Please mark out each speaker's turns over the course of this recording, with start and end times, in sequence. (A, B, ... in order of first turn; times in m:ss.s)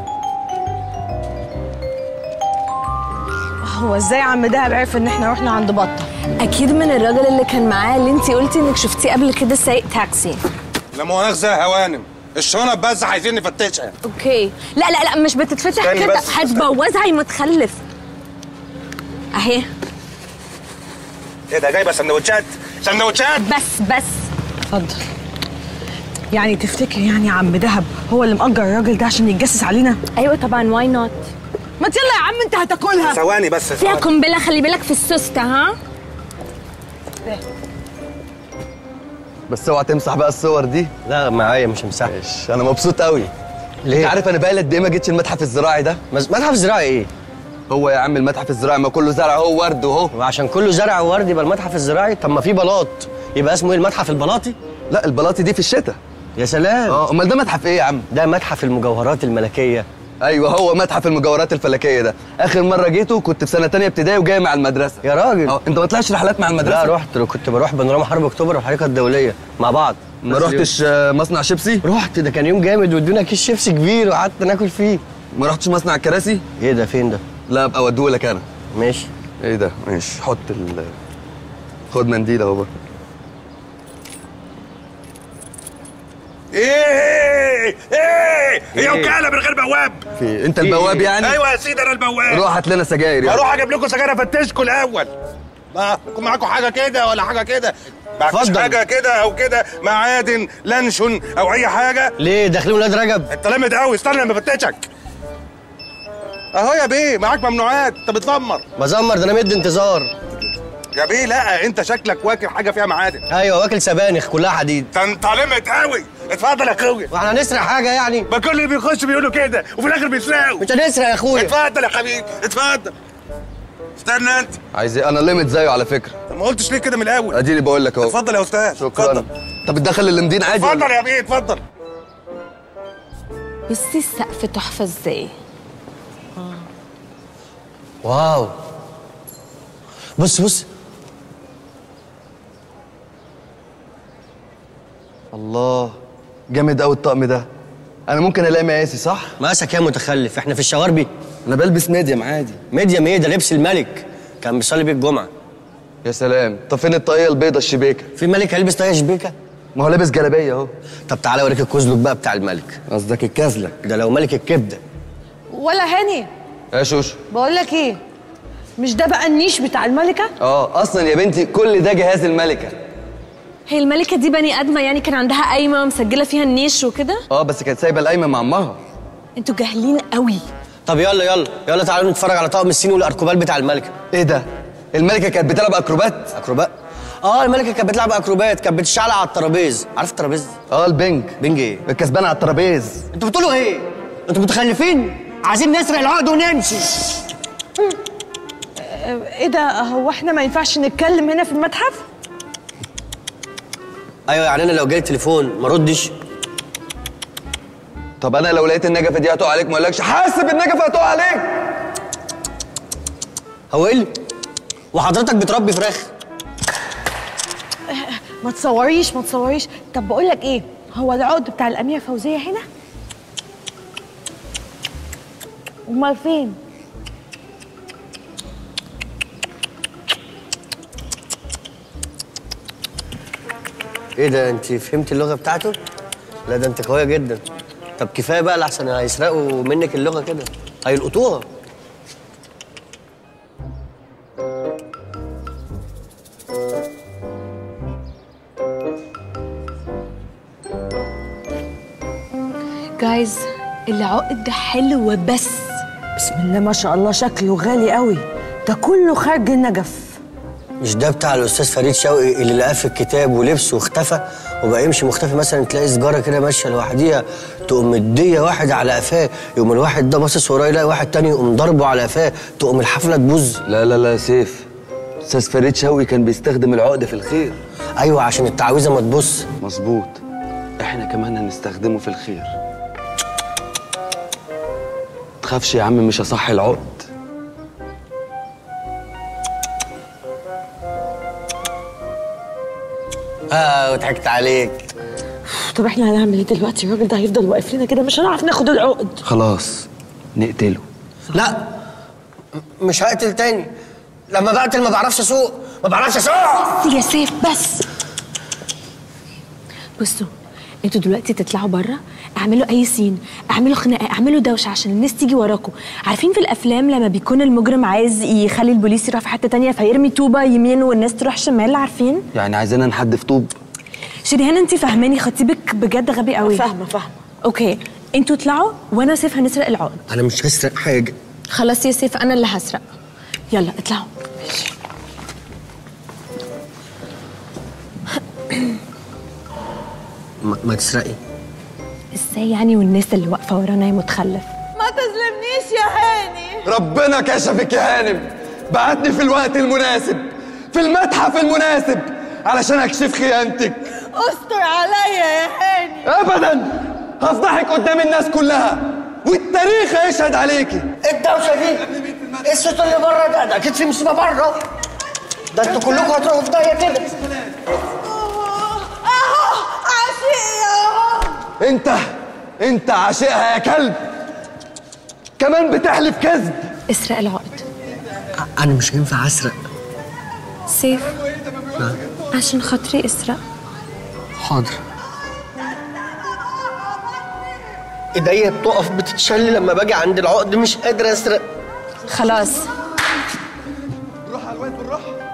0:03.6-0:06.1 A
0:06.4-0:10.4 B
0:11.0-0:14.0 C
0:14.0-0:17.8 B
0:15.8-0:16.6 C
0:19.4-0:19.7 B
0:21.5-0:23.4 C
0:23.4-0:24.3 B
0:24.7-0:25.1 A
0:26.3-0:30.0 A
0:30.2-0:31.3 B
0:31.8-0:33.2 A
0:33.0-0:34.0 C
0:33.8-0:35.8 B
0:39.5-0:40.9 D
0:41.1-0:42.1 E
0:42.1-0:43.3 D
0:43.8-0:44.1 E
0:43.9-0:46.0 D
0:46.1-0:47.1 E
0:47.7-0:50.1 D
0:50.1-0:54.6 E
0:54.9-0:56.0 D
0:56.4-0:57.0 E
0:56.9-0:58.1 D
0:58.1-0:59.9 E
1:00.2-1:06.9 D
1:05.0-1:05.6 E
1:06.6-1:10.7 E
1:10.2-1:11.8 D
1:11.8-1:15.0 E
1:15.3-1:16.4 D
1:16.6-1:17.2 E
1:17.5-1:18.4 D
1:18.7-1:19.1 E
1:19.4-1:21.0 D
1:21.9-1:22.7 D
1:26.5-1:30.0 C
1:28.8-1:29.2 E
1:30.2-1:31.4 D
1:30.6-1:32.5 C
1:32.3-1:33.4 D
1:33.2-1:35.1 C
1:35.7-1:42.2 C
1:38.3-1:38.8 E
1:42.2-1:43.3 E
1:43.3-1:44.9 C
1:46.5-1:48.6 C
1:48.8-1:50.1 E
1:50.4-1:53.2 C
1:53.3-1:54.9 E
1:54.9-1:57.1 C
1:57.1-1:58.3 E
1:58.3-2:00.7 C
2:00.6-2:01.5 E
2:01.3-2:02.9 C
2:04.0-2:04.6 C
2:04.7-2:06.2 D
2:06.3-2:07.4 C
2:07.3-2:08.1 D
2:08.0-2:09.3 C
2:08.8-2:10.9 D
2:10.6-2:11.6 C
2:13.7-2:15.3 B
2:18.0-2:18.5 E
2:20.2-2:20.7 E
2:25.3-2:26.0 D
2:26.5-2:27.5 D
2:28.1-2:29.3 D
2:29.4-2:31.1 E
2:31.5-2:32.6 D
2:32.7-2:35.3 E
2:36.0-2:38.1 D
2:38.2-2:39.3 E
2:39.8-2:40.7 D
2:41.1-2:42.8 E
2:42.9-2:43.8 D
2:43.8-2:44.8 E
2:45.5-2:46.3 A
2:46.7-2:47.2 D
2:47.3-2:48.0 A
2:48.8-2:50.3 A
2:50.4-2:52.8 D
2:53.7-2:57.2 B
2:57.3-2:58.8 D
2:59.4-3:00.4 B
3:00.9-3:04.0 E
3:04.1-3:06.3 D
3:06.4-3:10.5 E
3:10.7-3:13.0 D
3:11.4-3:11.8 E
3:13.1-3:17.0 E
3:18.8-3:22.1 A
3:24.3-3:26.1 E
3:28.2-3:31.6 D
3:33.7-3:34.1 E
3:34.9-3:36.1 E
3:37.9-3:42.6 A
3:45.9-3:46.6 A
3:54.2-3:55.8 E
3:56.5-3:57.4 E
3:58.0-4:01.5 E
4:13.0-4:15.8 B
4:16.2-4:20.2 A
4:20.8-4:33.6 E
4:33.7-4:34.6 D
4:35.3-4:37.6 D
4:38.0-4:39.5 E
4:39.6-4:40.2 D
4:40.8-4:42.5 D
4:45.4-4:47.1 D
4:53.5-4:54.9 E
4:55.5-4:59.2 A
4:59.2-5:00.8 D
5:01.3-5:01.6 E
5:02.8-5:03.7 E
5:04.3-5:06.7 E
5:06.7-5:07.8 B
5:10.0-5:10.3 B
5:10.8-5:22.2 B
5:22.3-5:23.5 D
5:24.2-5:26.7 B
5:26.4-5:27.2 A
5:27.4-5:30.1 B
5:30.1-5:31.2 E
5:31.5-5:32.8 B
5:33.5-5:34.6 B
5:40.4-5:41.2 E
5:42.1-5:44.5 B
5:44.8-5:46.6 A
5:46.6-5:53.9 D
5:54.1-5:56.0 A
5:56.0-6:00.9 D
6:01.0-6:01.9 E
6:01.9-6:02.5 D
6:02.4-6:04.6 E
6:05.5-6:07.1 E
6:08.9-6:09.2 A
6:10.0-6:10.7 A
6:11.6-6:12.0 D
6:12.6-6:14.0 D
6:15.4-6:16.6 D
6:16.9-6:17.6 B
6:18.4-6:19.6 E
6:20.7-6:21.2 B
6:22.3-6:23.4 B
6:24.4-6:24.8 E
6:28.2-6:31.4 E
6:32.1-6:32.7 B
6:34.6-6:34.9 D